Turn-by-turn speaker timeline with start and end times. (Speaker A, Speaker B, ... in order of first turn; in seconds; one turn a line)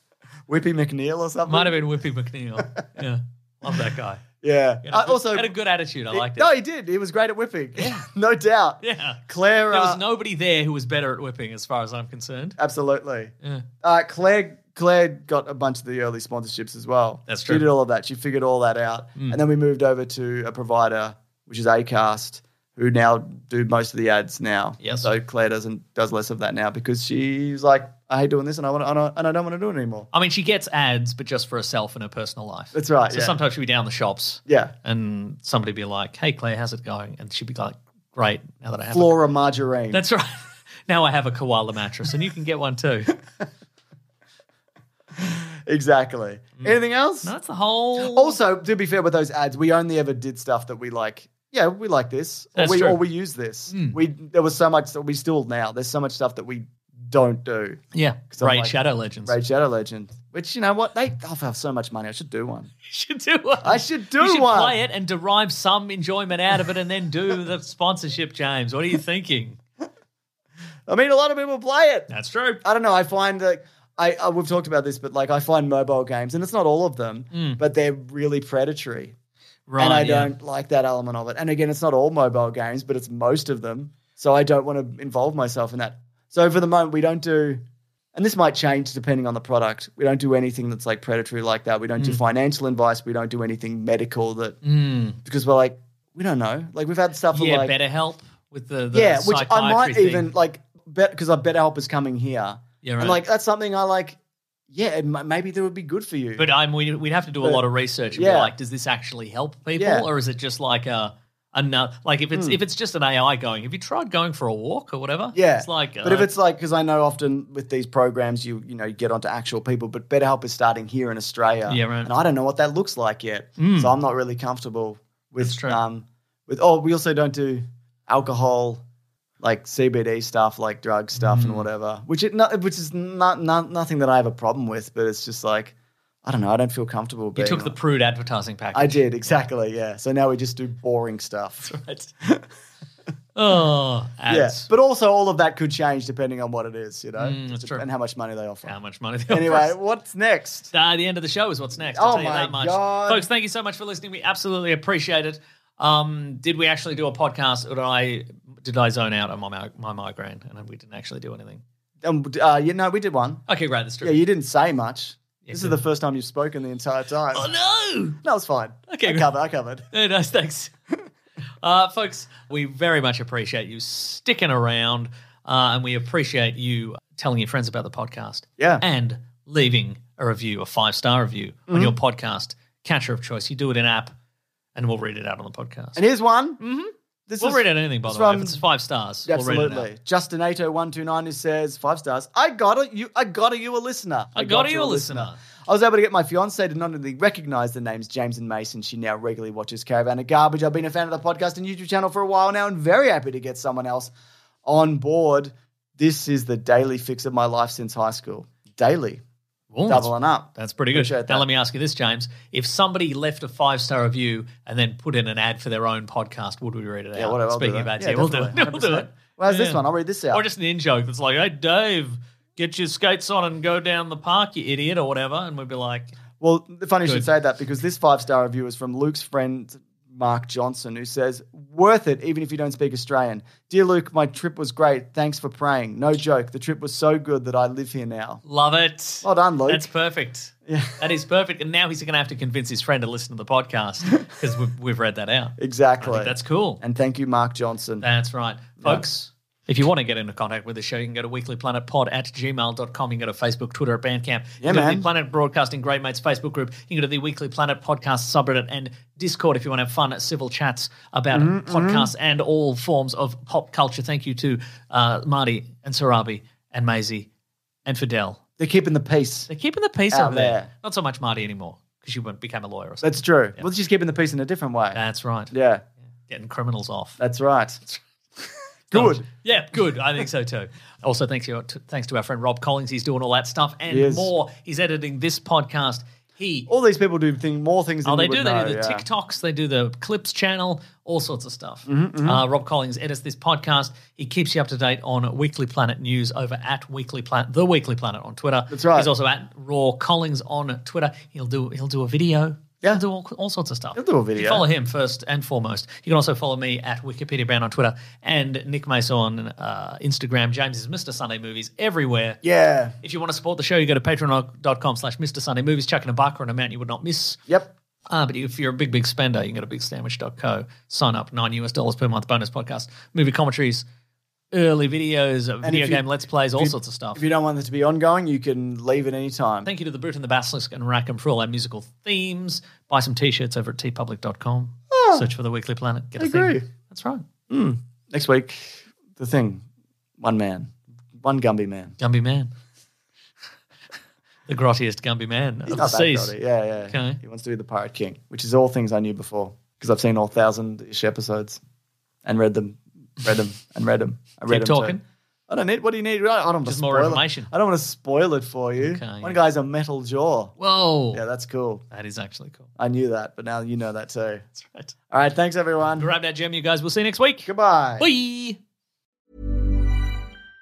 Speaker A: 0.5-1.8
Speaker B: 1.4-4.2
Speaker A: 2.6-2.8
Speaker A: 4.4-5.5
Speaker B: 4.8-6.5
Speaker A: 6.1-10.0
Speaker B: 7.8-8.0
Speaker B: 8.8-12.6
Speaker A: 12.6-30.1
Speaker B: 17.3-17.6
Speaker B: 24.8-25.1
Speaker B: 30.1-39.1
Speaker A: 32.7-33.4
Speaker A: 34.5-34.7
Speaker A: 38.9-40.0
Speaker B: 39.9-43.1
Speaker A: 45.1-47.3
Speaker B: 46.6-48.4
Speaker A: 48.0-62.7
Speaker B: 52.5-53.0
Speaker B: 53.7-54.0
Speaker B: 57.9-59.4
Speaker B: 62.8-69.6
Speaker A: 63.6-64.8
Speaker A: 70.9-72.1
Speaker B: 72.1-72.6
Speaker A: 72.6-79.1
Speaker B: 77.3-77.6
Speaker B: 79.7-80.3
Speaker A: 79.8-87.6
Speaker A: 88.1-94.6
Speaker B: 94.6-95.2
Speaker A: 95.2-97.7
Speaker B: 97.3-100.3
Speaker A: 98.9-104.2
Speaker B: 102.8-103.2
Speaker A: 104.7-106.5
Speaker B: 106.4-116.3
Speaker A: 107.4-108.5
Speaker A: 109.8-110.1
Speaker A: 112.3-112.6
Speaker A: 115.3-128.8
Speaker B: 121.7-122.1
Speaker B: 123.6-123.9
Speaker B: 125.4-125.8
Speaker A: 129.4-137.8
Speaker B: 131.1-131.7
Speaker B: 137.3-139.4
Speaker A: 138.7-142.4
Speaker B: 141.7-142.1
Speaker B: 143.3-144.7
Speaker A: 144.3-148.7
Speaker B: 147.2-147.8
Speaker B: 148.6-149.7
Speaker A: 149.3-150.7
Speaker B: 150.7-161.6
Speaker A: 151.9-153.3
Speaker A: 162.0-163.4
Speaker B: 163.5-164.2
Speaker A: 164.0-167.5
Speaker B: 165.4-165.8
Speaker B: 167.3-168.2
Speaker A: 168.2-169.9
Speaker B: 168.9-169.3
Speaker B: 169.9-170.7
Speaker B: 171.6-184.1
Speaker A: 178.6-178.8
Speaker A: 181.7-181.9
Speaker B: 184.7-186.0
Speaker A: 185.9-186.6
Speaker B: 186.6-189.9
Speaker A: 187.3-188.6
Speaker A: 189.3-204.1
Speaker B: 194.3-195.4
Speaker A: 204.6-209.2
Speaker B: 209.7-226.1
Speaker A: 209.8-211.4
Speaker A: 217.1-220.4
Speaker A: 226.4-238.4
Speaker B: 238.4-246.8
Speaker A: 239.2-239.9
Speaker A: 240.7-241.0
Speaker A: 245.6-248.1
Speaker B: 248.0-267.3
Speaker A: 248.8-249.0
Speaker A: 254.6-255.1
Speaker A: 261.3-262.1
Speaker B: 267.9-268.4
Speaker A: 268.6-269.5
Speaker B: 269.5-273.6
Speaker A: 270.1-270.7
Speaker A: 273.0-275.8
Speaker B: 274.9-275.5
Speaker B: 276.3-277.2
Speaker A: 277.2-277.9
Speaker A: 278.9-279.2
Speaker B: 278.9-286.7
Speaker A: 283.9-284.3
Speaker A: 286.7-289.1
Speaker B: 288.0-312.4
Speaker A: 291.9-292.4
Speaker A: 298.7-299.1
Speaker A: 303.9-304.6
Speaker A: 312.4-313.0
Speaker B: 313.0-317.4
Speaker A: 317.5-317.7
Speaker B: 318.1-323.8
Speaker B: 324.5-327.2
Speaker A: 325.6-329.7
Speaker B: 329.6-337.2
Speaker A: 334.9-335.3
Speaker A: 336.2-336.7
Speaker A: 337.5-339.6
Speaker A: 340.2-342.0
Speaker B: 342.0-342.5
Speaker B: 344.5-346.3
Speaker A: 345.6-351.6
Speaker B: 346.9-347.2
Speaker A: 352.2-360.5
Speaker B: 354.5-355.0
Speaker B: 356.6-357.5
Speaker B: 358.8-359.4
Speaker B: 360.6-361.2
Speaker A: 361.1-361.8
Speaker B: 361.9-362.7
Speaker A: 362.8-364.4
Speaker B: 364.6-364.9
Speaker A: 365.1-366.1
Speaker B: 366.0-368.6
Speaker A: 367.4-368.1